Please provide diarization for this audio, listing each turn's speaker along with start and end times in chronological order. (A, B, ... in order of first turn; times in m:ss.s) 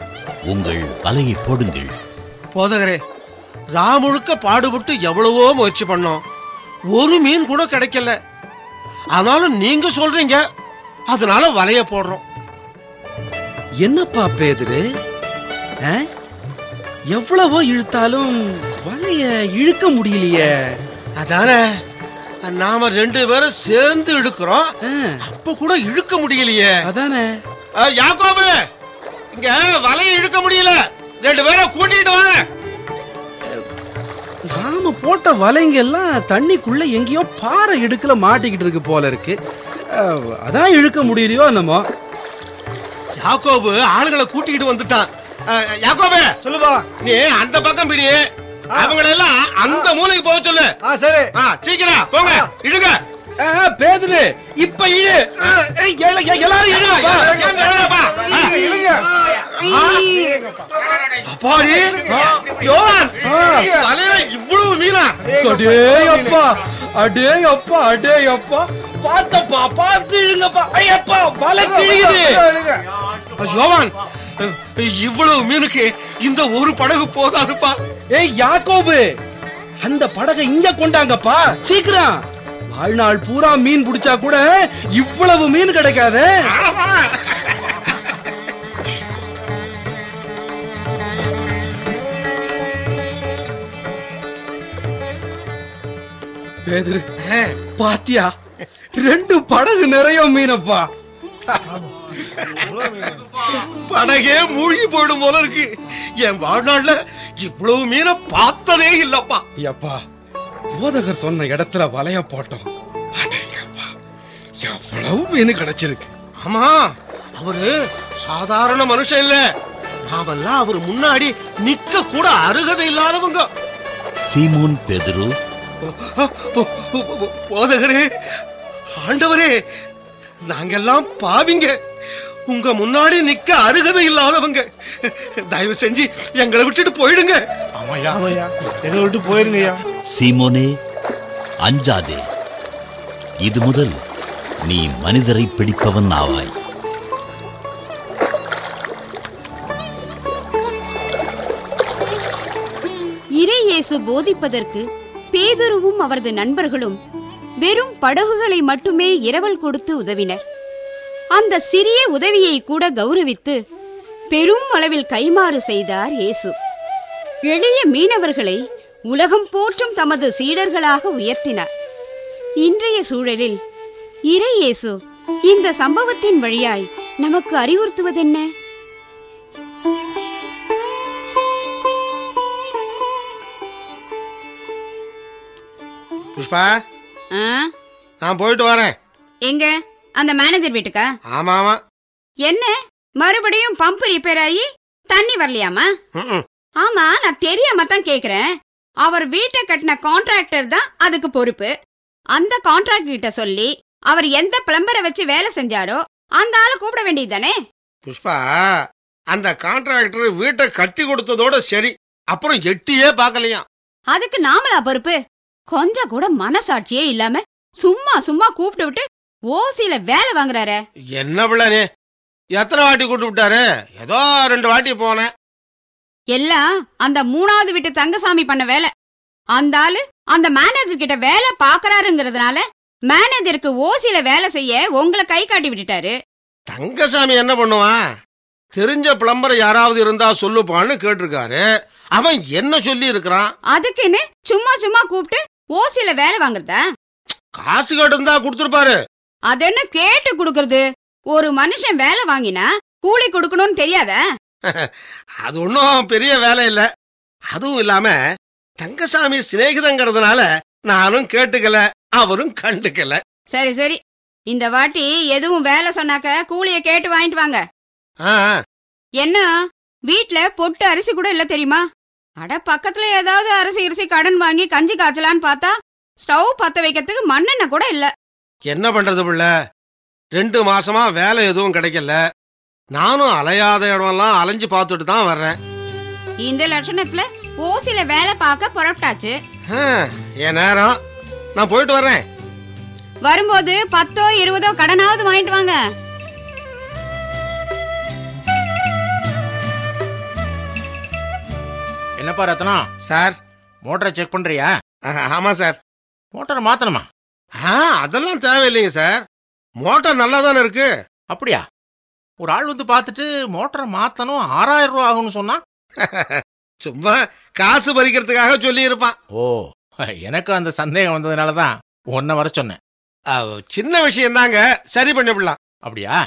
0:00.5-0:02.0 A
0:02.5-0:03.0 B
0:03.8-0:06.2 B
0:06.9-0:08.2 B
0:09.1-0:10.4 B
0:11.1-0:12.2 B
0:13.8-0:14.8 C
0:17.1-0:20.6 C
0:21.2-0:21.6 B
0:22.4-0:24.7 B
0:24.9-0:25.2 C
0:25.2-0:26.7 B
0:26.8-0:27.3 C
0:27.8-0:28.6 B
0:29.3-0:32.4 B
0:34.5-0:39.4 C
0:39.9-0:41.8 C
0:43.2-0:46.4 B
0:46.9-0:50.8 B
0:51.3-0:53.0 B
0:53.4-0:57.8 C
0:56.9-0:58.8 B
0:59.6-1:00.1 B
1:01.2-1:05.4 B
1:02.0-1:02.4 C
1:03.2-1:03.8 C
1:05.4-1:12.5 C
1:11.9-1:12.3 B
1:13.3-1:17.8 B
1:18.1-1:19.0 C
1:19.8-1:22.2 C
1:22.7-1:26.3 C
1:26.5-1:28.0 B
1:36.7-1:37.0 C
1:37.2-1:37.6 B
1:37.8-1:38.3 C
1:39.0-1:40.9 C
1:42.4-1:49.4 B
1:49.6-1:50.0 C
1:50.8-1:53.9 C
1:54.6-1:56.1 C
1:56.4-1:59.4 B
2:00.1-2:03.5 B
2:04.3-2:05.4 A
2:05.8-2:08.4 B
2:09.0-2:09.5 B
2:10.5-2:11.7 B
2:12.5-2:17.4 B
2:17.8-2:19.7 D
2:20.1-2:20.8 A
2:21.6-2:22.2 A
2:23.4-2:24.0 A
2:24.7-2:26.5 A
2:33.4-2:37.0 E
2:37.6-2:40.4 E
2:41.3-2:43.6 E
2:44.3-2:46.6 E
2:47.5-2:51.7 E
2:52.6-2:53.6 E
2:54.3-2:55.0 E
2:55.5-2:58.5 E
3:06.4-3:06.7 B
3:07.3-3:07.7 E
3:08.2-3:08.9 B
3:09.5-3:11.1 E
3:11.3-3:11.8 B
3:12.5-3:15.9 E
3:16.2-3:16.4 B
3:16.8-3:18.5 E
3:19.0-3:21.7 E
3:22.4-3:27.6 E
3:28.1-3:28.5 B
3:29.3-3:33.6 B
3:34.1-3:35.2 E
3:35.7-3:40.8 E
3:41.2-3:41.9 B
3:42.5-3:45.3 B
3:46.3-3:48.9 E
3:49.6-3:56.1 E
3:56.7-3:58.0 B
3:58.7-4:03.5 B
4:03.7-4:06.8 E
4:07.6-4:09.0 B
4:09.5-4:10.8 E
4:11.3-4:14.2 E
4:15.4-4:16.9 B
4:17.5-4:18.2 B
4:18.8-4:23.2 B
4:23.5-4:24.0 E
4:24.5-4:27.6 E
4:28.2-4:28.6 B
4:29.2-4:29.5 E
4:30.1-4:31.8 E
4:32.4-4:38.1 E
4:38.7-4:39.5 B
4:40.4-4:42.2 B
4:42.9-4:45.6 B
4:46.4-4:49.3 E
4:49.7-4:51.0 B
4:51.6-4:52.2 B
4:53.2-4:55.8 E
5:02.2-5:02.8 D
5:03.1-5:03.4 B
5:03.9-5:04.7 D
5:05.1-5:05.8 B
5:06.3-5:07.0 D
5:07.6-5:09.2 B
5:09.8-5:10.9 B
5:11.3-5:11.6 D
5:12.4-5:15.6 D
5:16.0-5:19.2 B
5:19.3-5:19.7 D
5:20.2-5:22.8 D
5:23.3-5:25.6 B
5:25.8-5:26.2 D